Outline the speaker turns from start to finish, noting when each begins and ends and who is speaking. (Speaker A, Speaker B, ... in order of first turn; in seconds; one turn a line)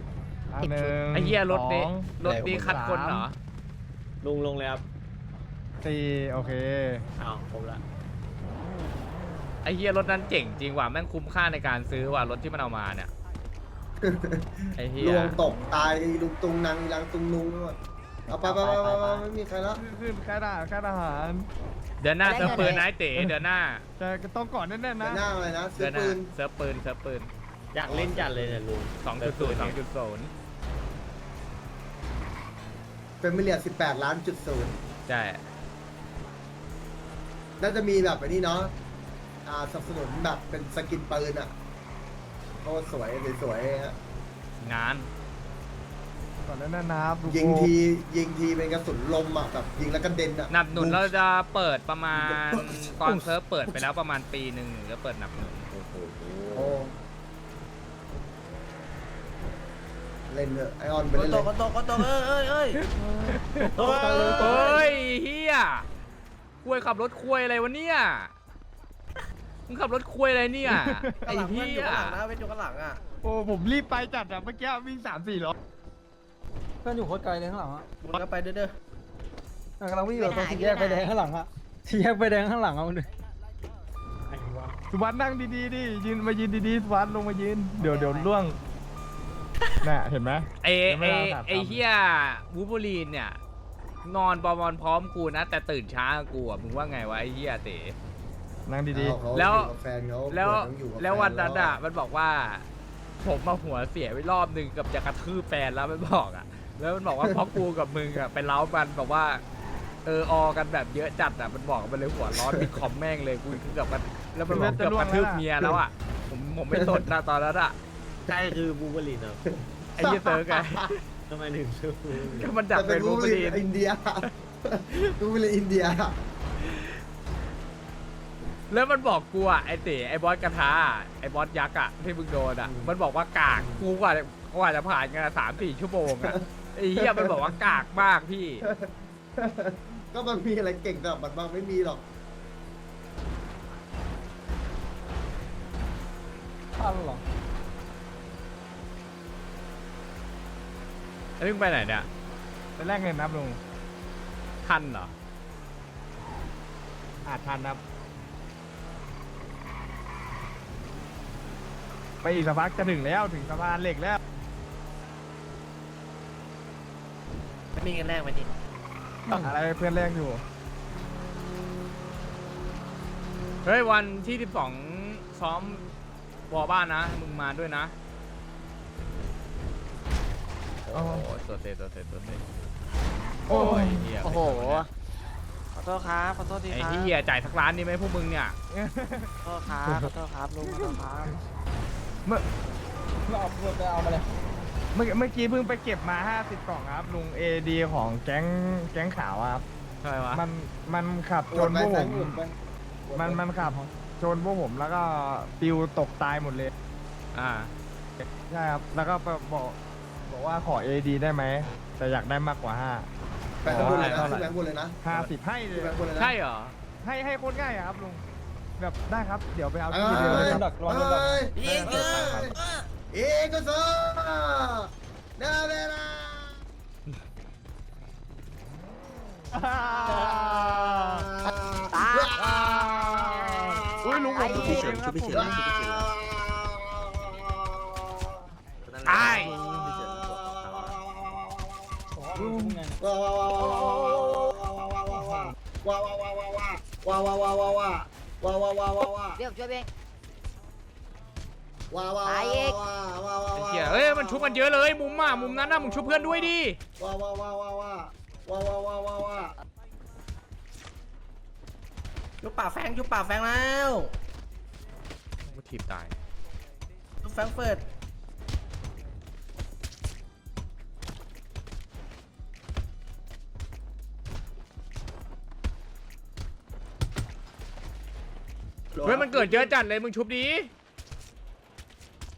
Speaker A: 0.5-3.3
Speaker B: 1.1-3.4
Speaker C: 4.2-4.8
Speaker A: 5.8-7.1
Speaker C: 7.2-7.8
Speaker B: 9.6-13.1
Speaker D: 14.0-17.8
Speaker B: 14.8-15.4
Speaker D: 18.3-19.8
Speaker E: 18.6-19.1
Speaker A: 19.8-21.5
Speaker B: 22.0-23.9
Speaker F: 22.3-22.8
Speaker A: 22.4-23.4
Speaker A: 24.0-25.2
Speaker D: 25.0-26.3
Speaker B: 25.8-27.3
Speaker C: 27.7-29.8
Speaker D: 27.9-28.6
Speaker B: 29.0-30.3
Speaker D: 33.2-34.8
Speaker B: 35.1-35.5
Speaker D: 37.6-38.7
Speaker D: 39.5-41.5
Speaker D: 42.6-44.0
Speaker B: 44.6-45.1
Speaker A: 46.4-47.7
Speaker D: 47.2-51.1
Speaker B: 50.5-55.7
Speaker D: 52.2-52.6
Speaker D: 56.5-56.9
Speaker D: 60.3-61.5
Speaker B: 62.8-63.7
Speaker A: 63.7-64.7
Speaker C: 63.8-64.6
Speaker D: 63.8-64.9
Speaker B: 64.4-65.9
Speaker B: 66.6-68.3
Speaker B: 69.7-72.2
Speaker A: 70.7-71.2
Speaker A: 73.2-75.5
Speaker G: 76.8-77.8
Speaker G: 79.8-83.1
Speaker F: 80.2-81.1
Speaker C: 84.3-84.8
Speaker A: 84.9-88.6
Speaker F: 87.8-88.3
Speaker A: 89.8-91.8
Speaker B: 90.6-93.4
Speaker B: 94.0-98.0
Speaker A: 98.7-99.2
Speaker D: 98.9-101.8
Speaker B: 99.3-99.7
Speaker B: 100.3-102.7
Speaker B: 103.2-109.4
Speaker D: 107.2-107.5
Speaker B: 110.0-117.8
Speaker D: 112.4-112.8
Speaker A: 114.5-115.5
Speaker D: 116.7-117.1
Speaker C: 118.3-119.4
Speaker D: 119.5-120.9
Speaker B: 120.0-121.0
Speaker C: 121.3-122.5
Speaker B: 122.2-123.6
Speaker D: 122.7-126.2
Speaker B: 128.7-138.7
Speaker D: 132.6-132.9
Speaker D: 133.5-133.9
Speaker D: 136.1-137.6
Speaker D: 138.6-142.0
Speaker G: 146.8-147.2
Speaker B: 151.4-152.1
Speaker A: 152.8-153.6
Speaker B: 154.6-155.1
Speaker A: 157.2-157.8
Speaker A: 162.2-164.2
Speaker A: 169.3-170.4
Speaker B: 173.7-175.8
Speaker B: 176.5-177.9
Speaker B: 180.9-182.4
Speaker A: 180.9-181.3
Speaker B: 183.5-184.9
Speaker A: 183.5-184.1
Speaker F: 184.4-184.8
Speaker E: 185.8-187.1
Speaker B: 186.7-188.6
Speaker A: 188.7-191.3
Speaker E: 189.4-191.3
Speaker G: 193.3-194.3
Speaker A: 194.9-199.7
Speaker B: 200.0-200.4
Speaker A: 200.3-202.4
Speaker D: 201.5-202.5
Speaker D: 203.1-203.4
Speaker A: 203.1-206.7
Speaker G: 203.6-203.9
Speaker B: 207.3-207.7
Speaker A: 208.2-213.1
Speaker D: 213.6-215.0
Speaker A: 213.7-214.4
Speaker B: 213.7-214.5
Speaker A: 215.0-216.0
Speaker D: 215.7-216.3
Speaker B: 216.2-216.8
Speaker A: 217.0-218.2
Speaker A: 218.8-220.7
Speaker D: 219.9-222.6
Speaker G: 220.2-221.5
Speaker A: 221.6-222.6
Speaker F: 221.6-221.9
Speaker D: 223.1-226.6
Speaker A: 229.5-231.2
Speaker D: 230.1-238.3
Speaker F: 231.9-232.4
Speaker A: 232.3-235.8
Speaker F: 233.3-236.0
Speaker F: 239.1-239.5
Speaker B: 239.1-239.6
Speaker D: 239.4-242.2
Speaker G: 242.1-243.0
Speaker D: 243.0-249.4
Speaker G: 245.1-245.5
Speaker F: 249.4-249.9
Speaker D: 251.9-259.5
Speaker F: 252.3-252.8
Speaker B: 253.6-256.8
Speaker B: 265.5-266.1
Speaker B: 279.0-280.7